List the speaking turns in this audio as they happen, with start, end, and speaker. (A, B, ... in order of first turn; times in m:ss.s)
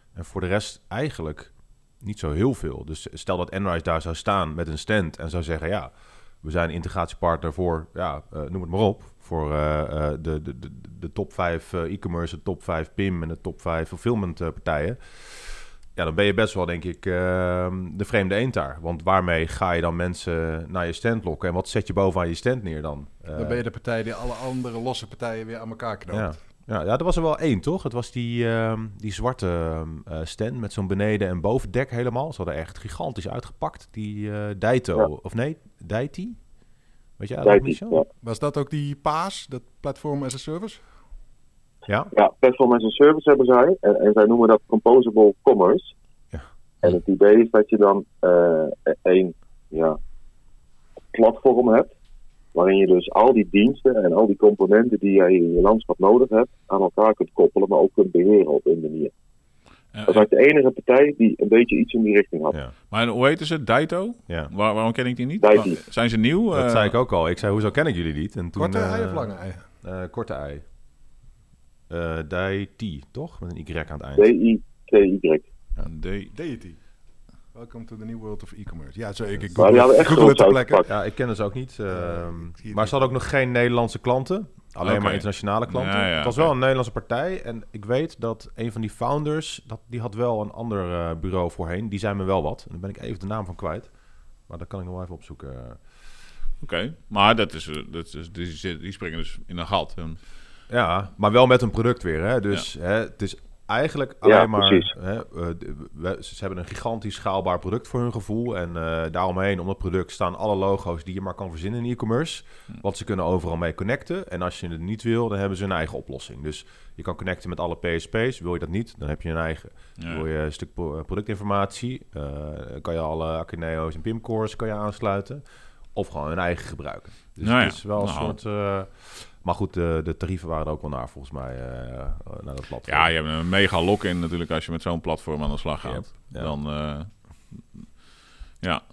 0:00.1-0:23.6 A
0:23.3-0:26.4 B
0:26.1-0:36.4 A
0:37.2-0:38.0 A
0:37.4-0:38.1 C
0:38.2-0:40.8 B
0:42.1-0:45.9 C
0:46.3-0:47.0 A
0:46.8-0:50.0 C
0:51.1-0:51.9 C
0:52.5-0:59.1 C
0:59.9-1:00.3 D
1:00.1-1:02.6 C
1:02.9-1:06.9 D
1:05.4-1:05.8 C
1:06.5-1:09.3 A
1:08.6-1:09.6 B
1:09.8-1:10.6 A
1:11.9-1:14.3 A
1:14.2-1:15.5 C
1:15.8-1:16.3 D
1:16.3-1:16.8 B
1:17.5-1:20.8 B
1:19.6-1:20.9 C
1:20.8-1:33.9 A
1:21.9-1:23.1 B
1:24.8-1:26.5 D
1:34.5-1:35.8 A
1:36.6-1:40.2 D
1:40.7-2:13.1 A
1:44.2-1:44.9 C
2:00.0-2:00.2 D
2:07.4-2:08.4 D
2:12.9-2:17.9 D
2:15.8-2:16.5 A